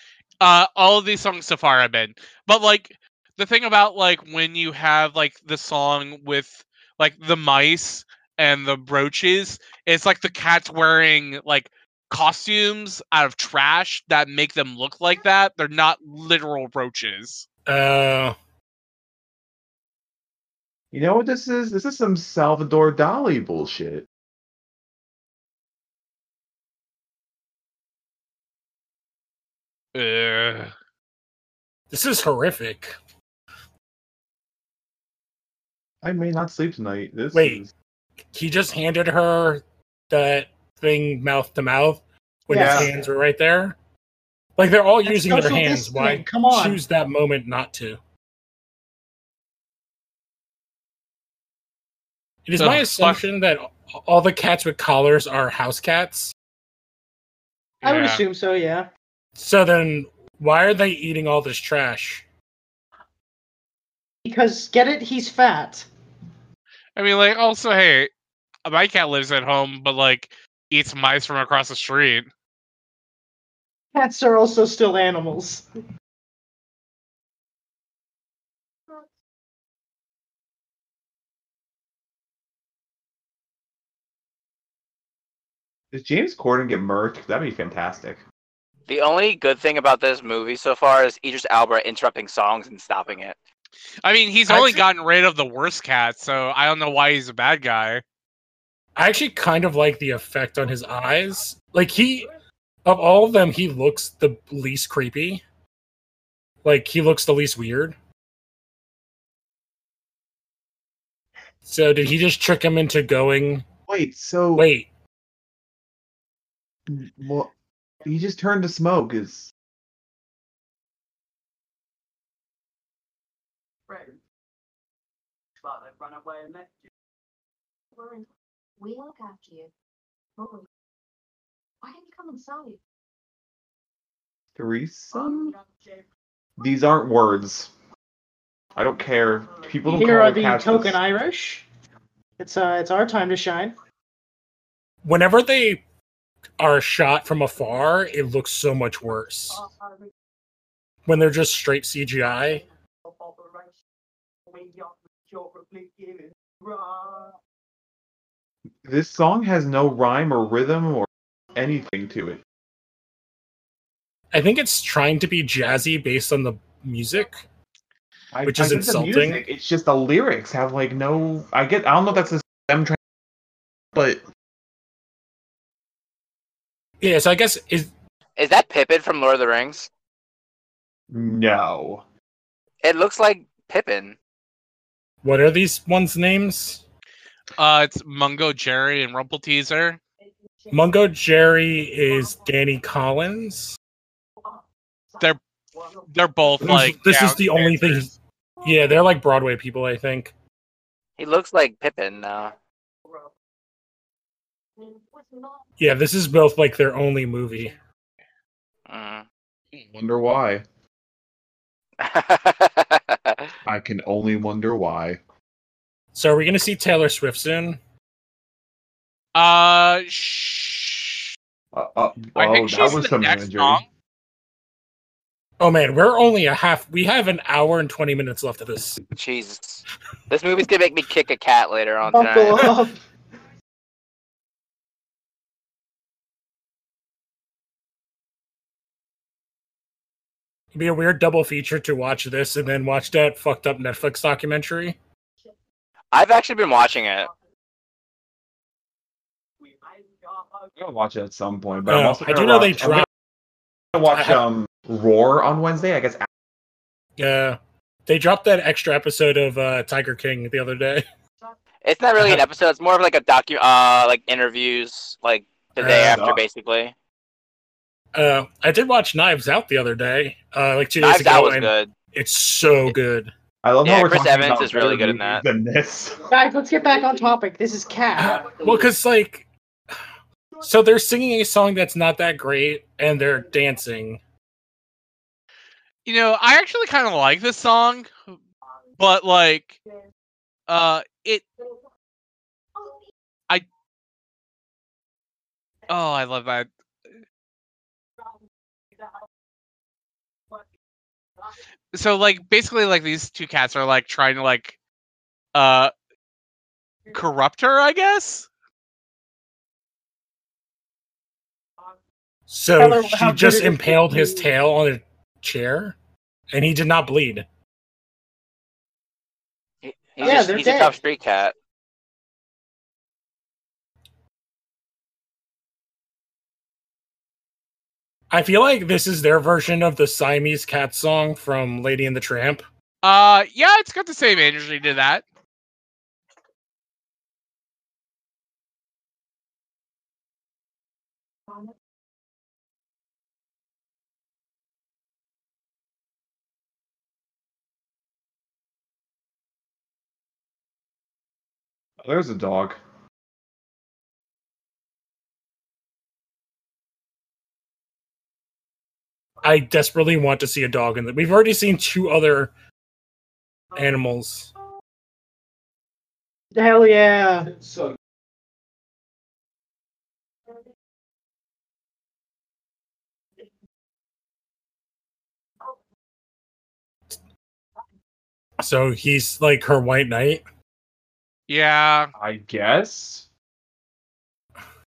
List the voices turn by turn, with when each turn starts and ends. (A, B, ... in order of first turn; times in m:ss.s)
0:00.4-0:17.4 A
0:17.7-0:18.3 B
0:20.9-0:24.0 C
0:29.9-0:30.7 A
0:31.9-0:32.9 B
0:36.0-0:37.7 C
0:37.3-0:37.6 B
0:38.3-0:43.8 B
0:42.5-0:42.9 D
0:42.5-0:42.9 C
0:44.6-0:48.0 B
0:45.0-0:46.8 D
0:52.4-0:56.3 B
0:52.6-0:53.2 A
0:57.8-0:58.2 A
0:57.8-0:58.9 D
0:59.4-1:02.2 B
1:04.2-1:05.9 D
1:07.0-1:08.1 A
1:08.6-1:12.3 A
1:13.9-1:15.6 D
1:25.9-1:28.2 C
1:28.9-1:33.4 E
1:34.0-1:38.0 A
1:34.5-1:34.8 B
1:39.0-1:42.3 B
1:42.8-1:45.4 B
1:46.6-1:48.0 B
1:51.6-1:53.6 B
1:53.9-1:54.7 C
1:54.6-1:54.9 B
1:56.9-1:57.5 C
1:58.0-1:59.5 C
2:03.9-2:04.2 F
2:05.7-2:06.8 F
2:08.0-2:08.2 F
2:08.8-2:09.7 F
2:10.4-2:10.6 F
2:11.8-2:12.8 F
2:14.6-2:15.5 C
2:15.2-2:15.5 F
2:16.6-2:17.7 C
2:18.8-2:21.0 C
2:19.9-2:21.6 D
2:22.4-2:23.8 D
2:25.0-2:25.8 B
2:26.6-2:29.6 B
2:29.5-2:29.9 F
2:31.0-2:32.6 B
2:33.2-2:33.5 F
2:34.5-2:37.3 F
2:38.8-2:42.4 C
2:44.3-2:47.4 B
2:48.3-2:53.0 C
2:48.4-2:49.4 B
2:53.9-2:54.2 C
2:57.0-2:57.9 B
2:58.4-2:59.9 E
3:01.1-3:02.0 C
3:02.8-3:04.2 E
3:05.2-3:06.8 B
3:07.6-3:10.0 A
3:10.7-3:13.8 B
3:16.1-3:18.1 A
3:16.6-3:20.3 B
3:21.2-3:22.5 E
3:25.0-3:25.5 F
3:25.8-3:27.7 B
3:28.9-3:29.2 E
3:29.7-3:30.6 C
3:32.0-3:33.5 E
3:33.6-3:35.2 C
3:36.1-3:37.8 B
3:39.3-3:41.3 A
3:41.7-3:43.8 C
3:42.4-3:43.9 A
3:45.6-3:49.0 B
3:49.1-3:52.7 E
3:52.1-3:53.0 D
4:00.7-4:05.0 B
4:06.1-4:07.3 E
4:09.6-4:10.7 F
4:10.8-4:13.0 C
4:11.9-4:13.0 B
4:13.9-4:16.2 C
4:14.0-4:14.4 B
4:17.2-4:21.0 B
4:21.8-4:26.9 E
4:25.8-4:26.4 C
4:25.8-4:26.1 B
4:28.1-4:33.3 B
4:31.0-4:31.9 E
4:33.6-4:36.2 C
4:33.8-4:35.4 E
4:36.3-4:38.8 D
4:38.2-4:39.5 B
4:40.6-4:44.2 B
4:46.0-4:48.3 A
4:49.0-4:49.8 A
4:50.7-4:51.4 A
4:55.9-4:56.7 A
5:01.9-5:04.8 A
5:05.5-5:05.9 A
5:07.1-5:08.5 A
5:12.5-5:16.0 B
5:12.8-5:14.5 D
5:16.5-5:17.4 B
5:19.8-5:21.5 E
5:20.2-5:21.0 D
5:28.3-5:32.6 B
5:33.0-5:35.2 A
5:52.0-5:52.8 C
5:59.4-6:02.5 B
6:03.8-6:04.5 B
6:06.5-6:07.6 D
6:18.6-6:20.4 B
6:21.5-6:22.1 A
6:22.2-6:23.3 C